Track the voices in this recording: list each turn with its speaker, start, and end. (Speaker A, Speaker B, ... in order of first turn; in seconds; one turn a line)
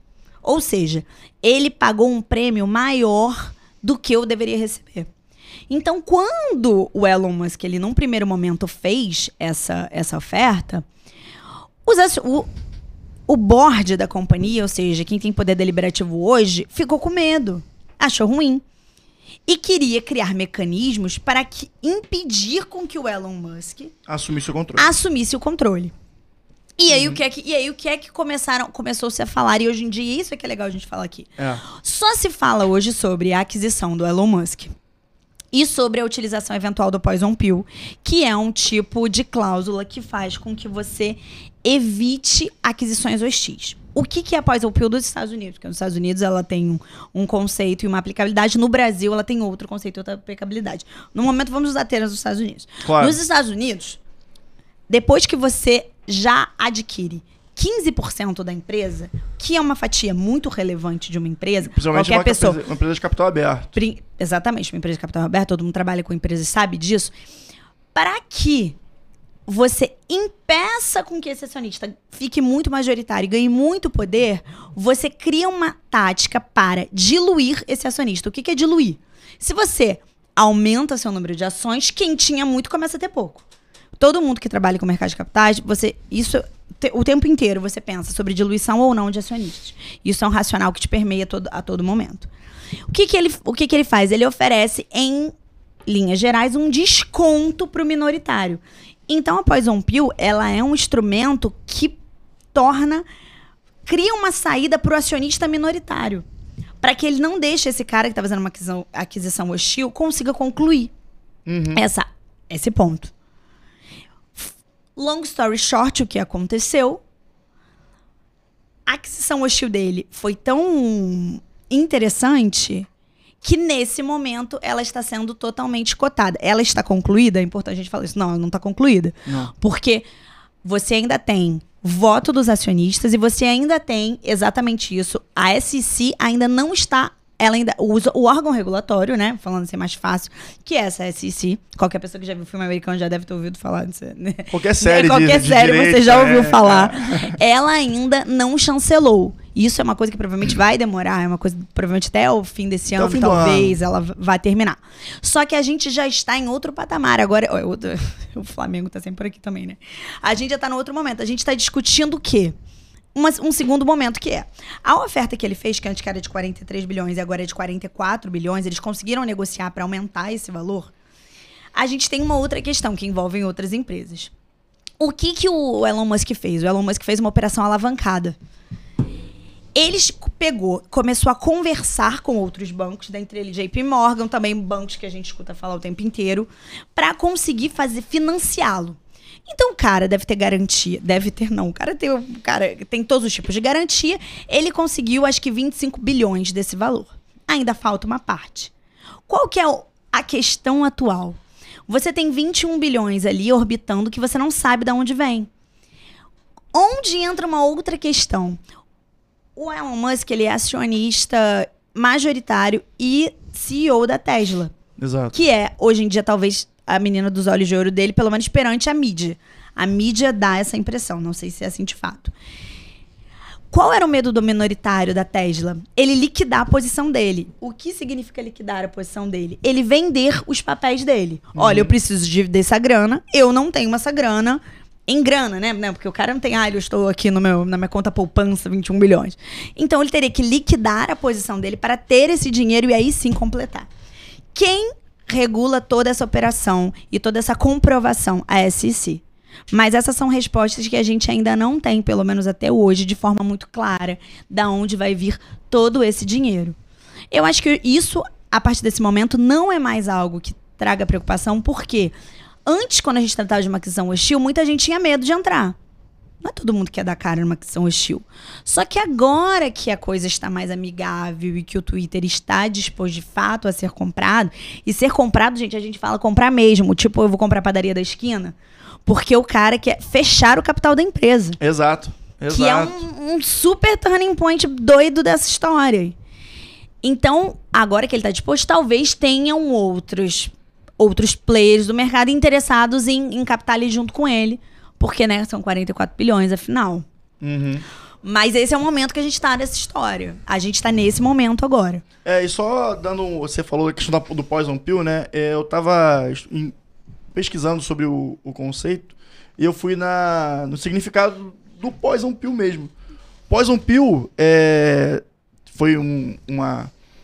Speaker A: 0.4-5.1
Speaker A: 5.7-10.8
Speaker A: 11.9-12.5
Speaker A: 13.3-18.6
Speaker A: 19.5-23.9
Speaker B: 24.1-24.9
Speaker A: 24.8-25.9
Speaker A: 26.8-34.7
Speaker B: 26.9-27.2
Speaker B: 31.4-31.6
Speaker A: 35.5-54.0
Speaker B: 52.8-53.2
Speaker A: 54.9-62.6
Speaker B: 61.7-63.7
Speaker A: 63.8-67.1
Speaker A: 68.0-68.8
Speaker A: 69.5-83.4
Speaker A: 84.0-92.3
Speaker A: 92.9-95.3
Speaker A: 95.9-102.0
Speaker A: 102.5-103.1
Speaker A: 103.9-106.2
Speaker A: 106.8-110.9
Speaker B: 111.5-111.8
Speaker A: 111.7-113.1
Speaker A: 114.4-117.0
Speaker A: 118.9-122.9
Speaker A: 123.4-130.1
Speaker B: 129.3-129.5
Speaker A: 130.6-162.6
Speaker B: 144.5-147.4
Speaker B: 153.0-153.8
Speaker A: 163.2-170.9
Speaker A: 171.8-174.3
Speaker A: 175.0-178.4
Speaker A: 179.8-198.7
Speaker A: 199.3-205.5
Speaker A: 206.7-208.6
Speaker A: 209.6-214.7
Speaker B: 215.0-215.3
Speaker A: 215.3-222.3
Speaker A: 223.7-243.9
Speaker B: 231.6-231.9
Speaker A: 244.6-256.8
Speaker A: 257.3-262.1
Speaker A: 262.7-265.8
Speaker A: 266.4-281.6
Speaker B: 281.6-283.0
Speaker A: 282.5-286.2
Speaker A: 287.0-297.1
Speaker B: 297.4-297.9
Speaker A: 298.2-302.0
Speaker B: 302.2-306.7
Speaker B: 307.3-312.9
Speaker B: 313.5-316.9